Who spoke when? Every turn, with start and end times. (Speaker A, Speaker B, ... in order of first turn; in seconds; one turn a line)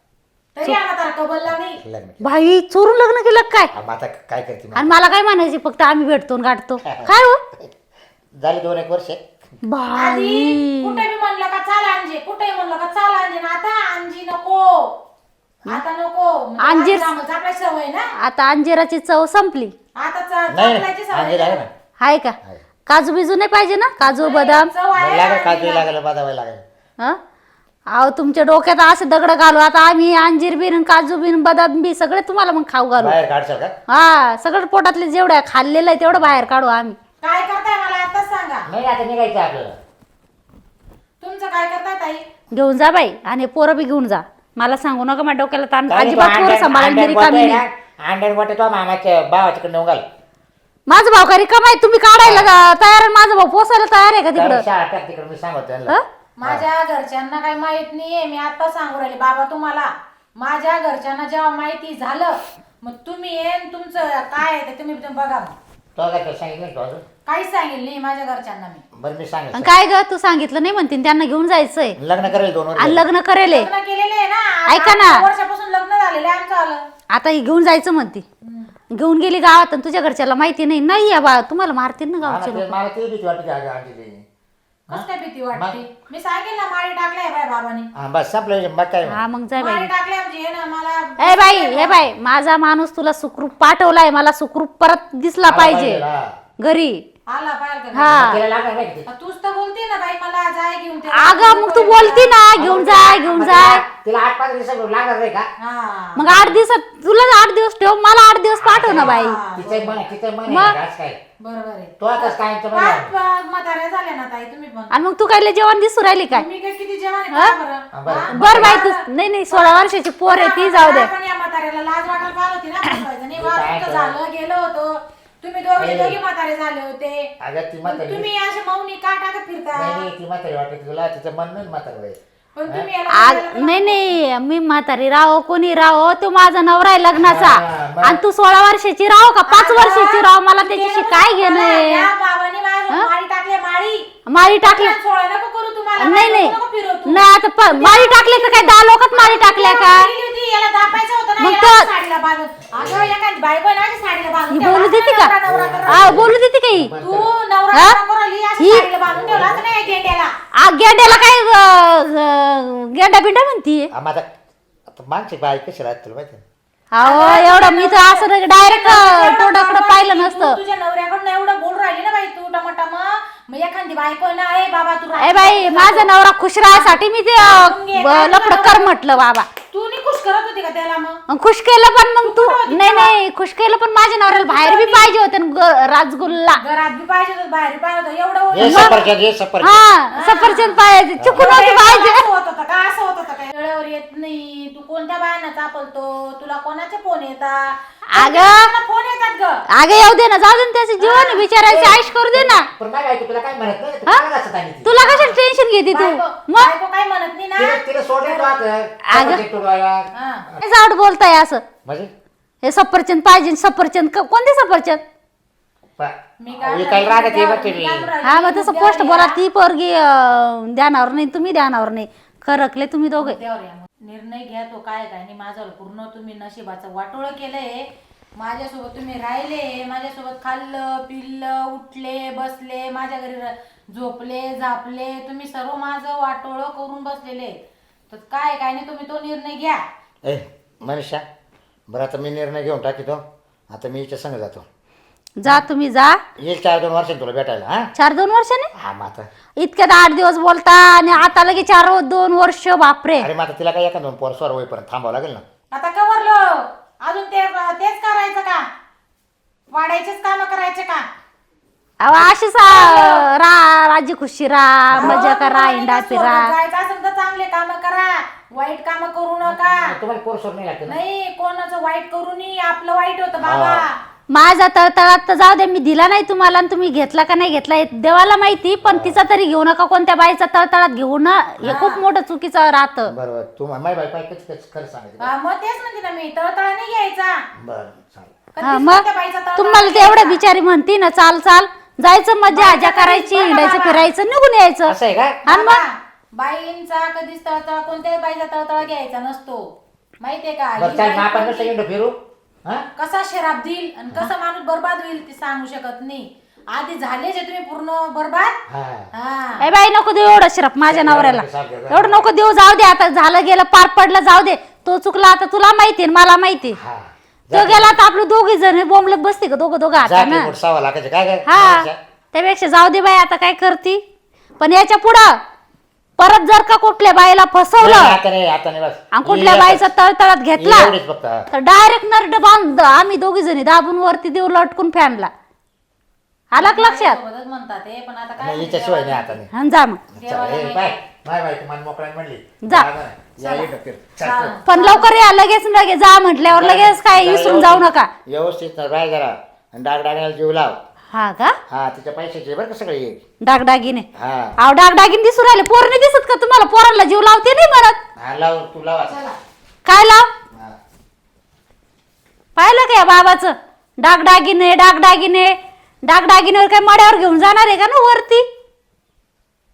Speaker A: 0.6-1.8
Speaker B: 1.5-2.3
Speaker C: 2.2-3.7
Speaker B: 3.7-4.9
Speaker C: 4.8-7.4
Speaker B: 6.8-7.7
Speaker B: 8.4-9.2
Speaker C: 9.7-11.0
Speaker A: 9.9-14.9
Speaker A: 15.7-18.1
Speaker C: 16.6-17.1
Speaker C: 18.2-19.7
Speaker A: 20.0-21.6
Speaker B: 20.5-21.7
Speaker C: 22.0-22.4
Speaker C: 22.9-24.7
Speaker A: 24.0-25.9
Speaker B: 24.9-26.6
Speaker C: 27.9-33.2
Speaker B: 33.0-33.7
Speaker C: 33.9-37.0
Speaker A: 37.2-38.7
Speaker B: 38.7-39.8
Speaker A: 41.2-42.2
Speaker C: 42.5-47.6
Speaker B: 45.9-50.0
Speaker C: 50.9-54.6
Speaker B: 52.2-52.5
Speaker B: 54.4-56.6
Speaker A: 56.4-65.5
Speaker B: 66.0-67.0
Speaker A: 67.2-68.8
Speaker B: 68.9-69.7
Speaker C: 69.5-72.0
Speaker B: 72.0-73.0
Speaker C: 72.8-73.7
Speaker A: 73.5-76.8
Speaker C: 74.7-75.2
Speaker C: 77.1-78.2
Speaker A: 78.4-78.7
Speaker C: 78.9-82.8
Speaker B: 82.2-84.2
Speaker A: 84.9-87.9
Speaker B: 84.9-85.8
Speaker B: 87.9-89.2
Speaker C: 89.0-89.9
Speaker A: 89.6-92.0
Speaker C: 91.2-96.0
Speaker B: 95.5-96.3
Speaker C: 96.6-97.0
Speaker A: 97.3-98.1
Speaker C: 97.9-98.4
Speaker B: 98.0-99.1
Speaker A: 99.1-103.2
Speaker C: 101.1-103.8
Speaker B: 102.6-105.5
Speaker A: 105.6-106.6
Speaker C: 106.2-109.4
Speaker B: 108.6-111.2
Speaker A: 108.8-110.0
Speaker C: 110.5-110.8
Speaker A: 111.4-114.9
Speaker B: 112.0-113.1
Speaker C: 114.9-116.5
Speaker A: 116.3-119.0
Speaker B: 117.9-118.8
Speaker C: 118.3-121.1
Speaker A: 119.5-127.3
Speaker B: 123.3-124.2
Speaker B: 125.8-126.2
Speaker B: 127.4-128.3
Speaker A: 127.9-130.1
Speaker B: 129.7-132.9
Speaker A: 132.5-134.0
Speaker C: 133.1-142.1
Speaker B: 137.2-138.2
Speaker A: 139.5-156.3
Speaker C: 144.3-144.9
Speaker C: 146.0-146.6
Speaker C: 147.1-150.1
Speaker C: 151.4-151.9
Speaker B: 152.8-153.1
Speaker C: 154.5-155.3
Speaker B: 155.5-157.3
Speaker C: 155.9-156.9
Speaker A: 157.0-160.3
Speaker C: 158.6-158.9
Speaker B: 159.1-159.7
Speaker C: 160.6-163.9
Speaker B: 163.9-164.3
Speaker B: 164.9-166.4
Speaker C: 166.9-170.6
Speaker A: 167.0-176.1
Speaker C: 175.2-179.5
Speaker A: 176.7-178.9
Speaker A: 179.7-181.2
Speaker C: 181.3-186.6
Speaker A: 182.2-183.1
Speaker A: 184.4-185.1
Speaker A: 186.6-189.0
Speaker B: 188.5-189.8
Speaker C: 188.6-189.0
Speaker C: 189.6-192.2
Speaker A: 190.1-190.8
Speaker B: 191.2-191.5
Speaker A: 191.3-199.6
Speaker C: 198.1-198.7
Speaker C: 199.7-202.7
Speaker A: 201.0-201.5
Speaker B: 201.6-204.9
Speaker C: 204.8-206.7
Speaker A: 205.0-205.4
Speaker A: 205.9-208.6
Speaker B: 207.6-210.6
Speaker C: 209.0-209.4
Speaker A: 210.1-210.5
Speaker C: 210.6-211.6
Speaker B: 211.8-212.1
Speaker C: 212.6-215.0
Speaker B: 216.0-218.1
Speaker A: 216.4-219.4
Speaker C: 218.2-223.4
Speaker A: 223.2-237.6
Speaker A: 238.1-239.8
Speaker B: 240.2-241.2
Speaker B: 241.9-244.7
Speaker C: 245.4-246.2
Speaker B: 246.4-247.9
Speaker C: 247.9-248.7
Speaker B: 248.8-249.3
Speaker C: 249.6-253.3
Speaker B: 253.2-255.4
Speaker A: 255.7-258.6
Speaker A: 259.7-261.1
Speaker C: 262.0-266.5
Speaker A: 262.7-263.3
Speaker B: 264.9-265.3
Speaker A: 265.0-269.9
Speaker B: 269.4-271.0
Speaker A: 270.9-274.0
Speaker B: 273.4-273.9
Speaker C: 274.3-283.1
Speaker B: 278.8-279.2
Speaker A: 281.6-282.0
Speaker B: 283.1-285.3
Speaker A: 285.2-287.4
Speaker B: 287.6-288.4
Speaker A: 288.5-290.4
Speaker C: 288.6-294.9
Speaker A: 292.5-294.0
Speaker B: 294.9-295.4
Speaker A: 295.4-301.7
Speaker C: 295.5-295.8
Speaker B: 300.8-302.9
Speaker A: 303.0-308.6
Speaker B: 308.7-309.1
Speaker A: 309.1-309.6
Speaker C: 309.6-316.8
Speaker B: 310.9-312.3
Speaker B: 316.8-318.0
Speaker C: 317.5-320.5
Speaker B: 320.0-322.0
Speaker C: 321.5-324.0
Speaker C: 324.6-325.4
Speaker C: 326.2-328.2
Speaker B: 327.8-329.9
Speaker C: 329.1-330.9
Speaker B: 330.6-331.5
Speaker C: 331.5-335.3
Speaker C: 336.5-337.2
Speaker A: 336.6-339.3
Speaker B: 338.4-339.5
Speaker C: 339.5-340.0
Speaker B: 340.1-344.6
Speaker A: 340.2-340.9
Speaker C: 342.6-342.9
Speaker A: 343.4-343.7
Speaker A: 344.2-345.1
Speaker C: 344.6-348.1
Speaker B: 346.5-350.8
Speaker C: 351.1-351.6
Speaker B: 351.7-353.2
Speaker C: 353.4-354.1
Speaker B: 354.1-354.5
Speaker C: 354.6-358.0
Speaker B: 358.2-359.2
Speaker A: 359.1-359.4
Speaker C: 359.9-360.3
Speaker C: 362.6-368.4